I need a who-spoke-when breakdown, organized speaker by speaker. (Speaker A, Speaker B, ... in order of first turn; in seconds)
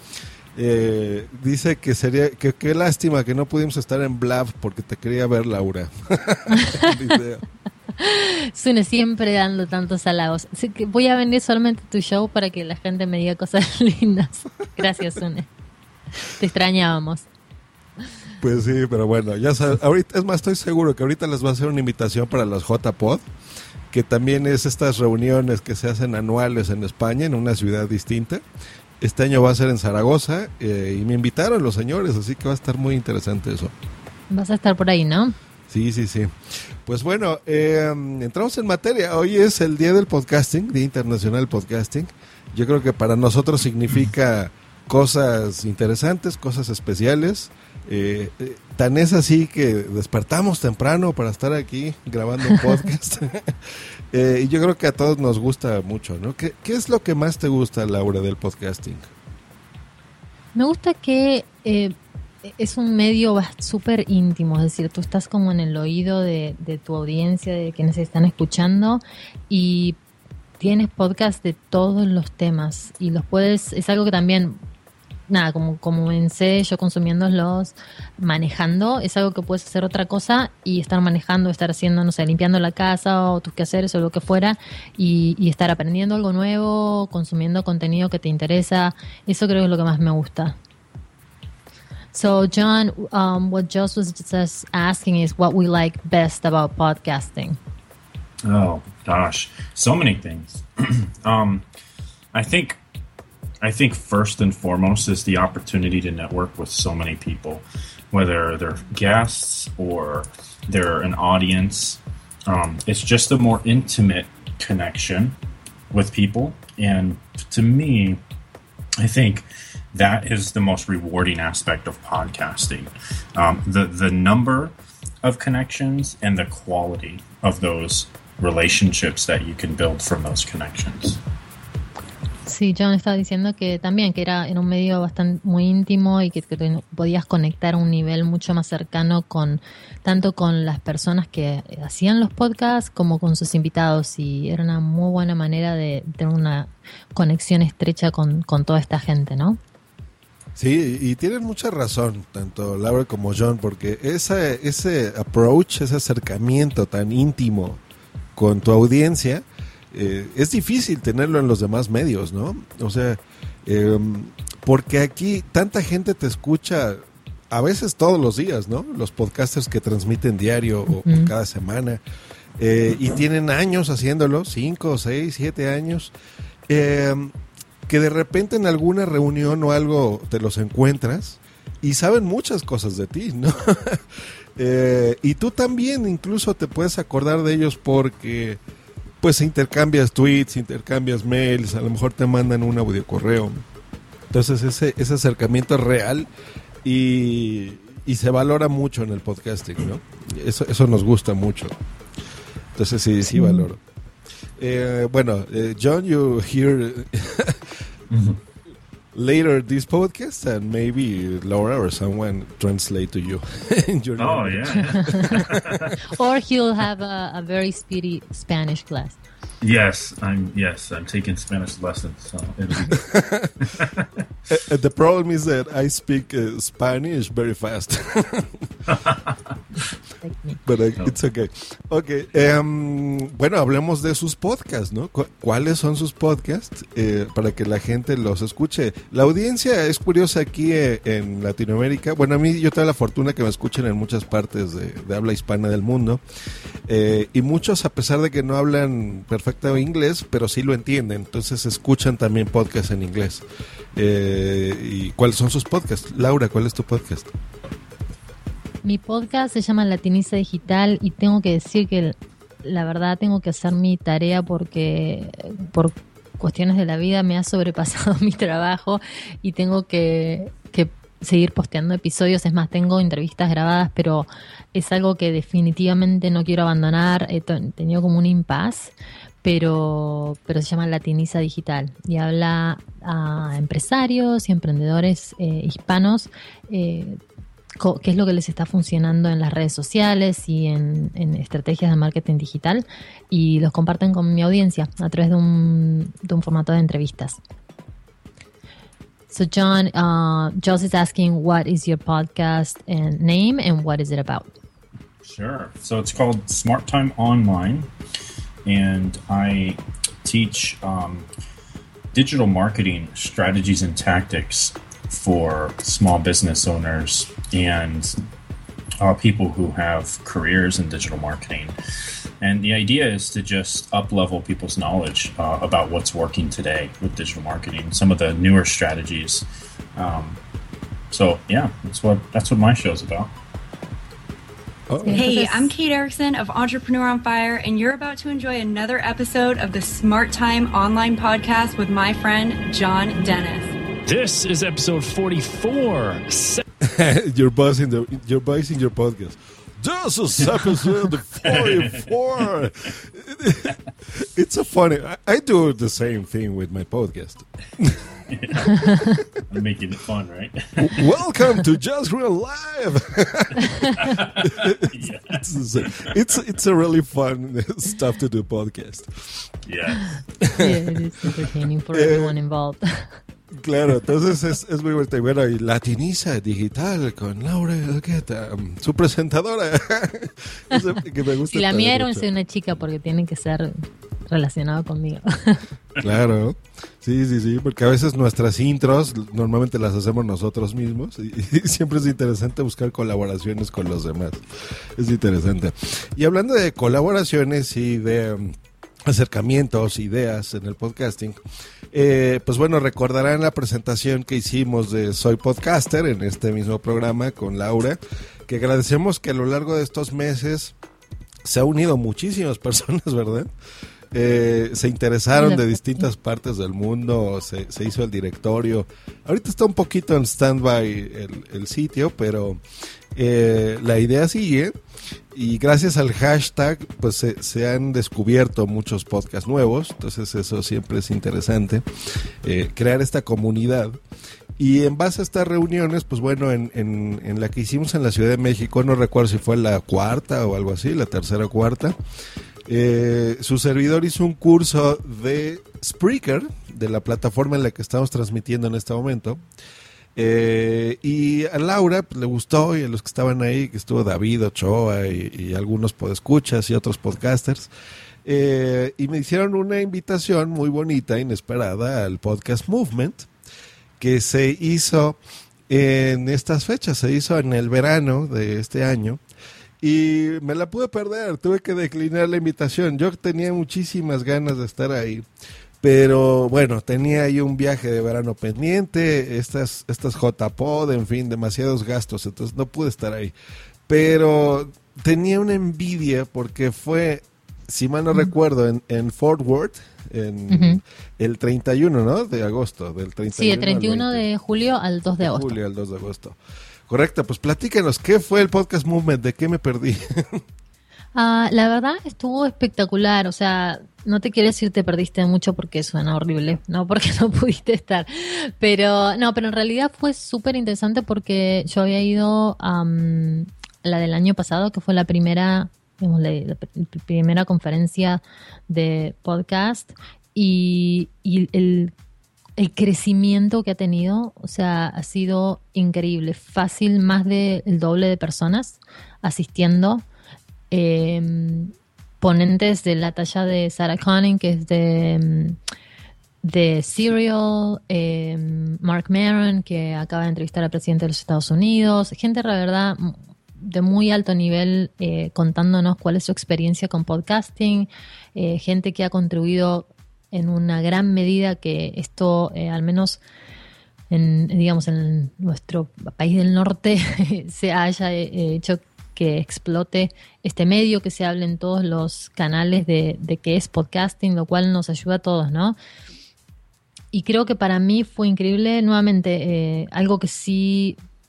Speaker A: 0.5-7.4, 18.4-23.2, 23.9-28.4, 29.0-33.7, 35.7-36.3, 36.9-53.5, 54.1-59.1, 150.6-157.8, 158.3-172.0, 172.6-176.1, 176.7-177.3, 177.9-184.0, 184.6-188.6, 189.2-193.6, 194.3-196.3, 196.8-201.7, 202.7-203.8, 204.6-207.7, 209.1-216.0, 222.9-223.7, 224.5-228.7, 230.7-246.2, 246.9-253.4, 253.9-257.3, 334.9-335.2, 346.8-358.0, 360.8-369.4, 370.4-370.9, 371.9-372.3, 373.5-382.3, 386.0-394.4, 394.9-401.4, 401.9-410.7, 411.4-413.5, 414.1-422.6, 423.1-424.7, 425.3-431.8, 432.4-434.0, 434.6-442.0, 442.7-449.4, 450.1-457.7, 458.2-463.3, 464.0-469.2, 469.8-475.2, 475.8-483.3, 483.9-494.2, 495.2-500.4
Speaker B: 6.5-6.9, 8.0-15.5, 16.2-17.3, 34.3-35.3, 60.5-61.9, 62.4-70.0, 70.6-74.6, 75.3-90.6, 92.1-97.6, 132.4-149.6, 170.9-171.3, 203.3-203.7, 216.1-219.2, 230.2-230.6, 258.8-287.2, 287.8-297.4, 299.3-304.5, 335.0-335.7, 370.6-373.1, 381.5-385.6, 415.3-416.1, 490.5-490.8, 493.3-495.6, 501.1-521.9, 522.6-530.0, 530.7-535.6, 536.4-553.2, 554.1-565.8, 567.1-571.0
Speaker C: 98.4-101.6, 102.3-102.8, 103.6-115.3, 115.9-118.2, 119.0-131.2, 208.1-208.4, 214.2-215.9, 219.6-223.1, 223.6-224.1, 228.9-229.4, 305.2-307.9, 308.6-311.3, 312.1-318.2, 319.0-321.7, 322.4-330.4, 331.1-333.3, 351.4-352.1, 358.3-358.9, 359.5-361.1, 364.0-366.1, 369.6-370.2
Speaker D: 335.1-343.7
Speaker E: 344.1-346.6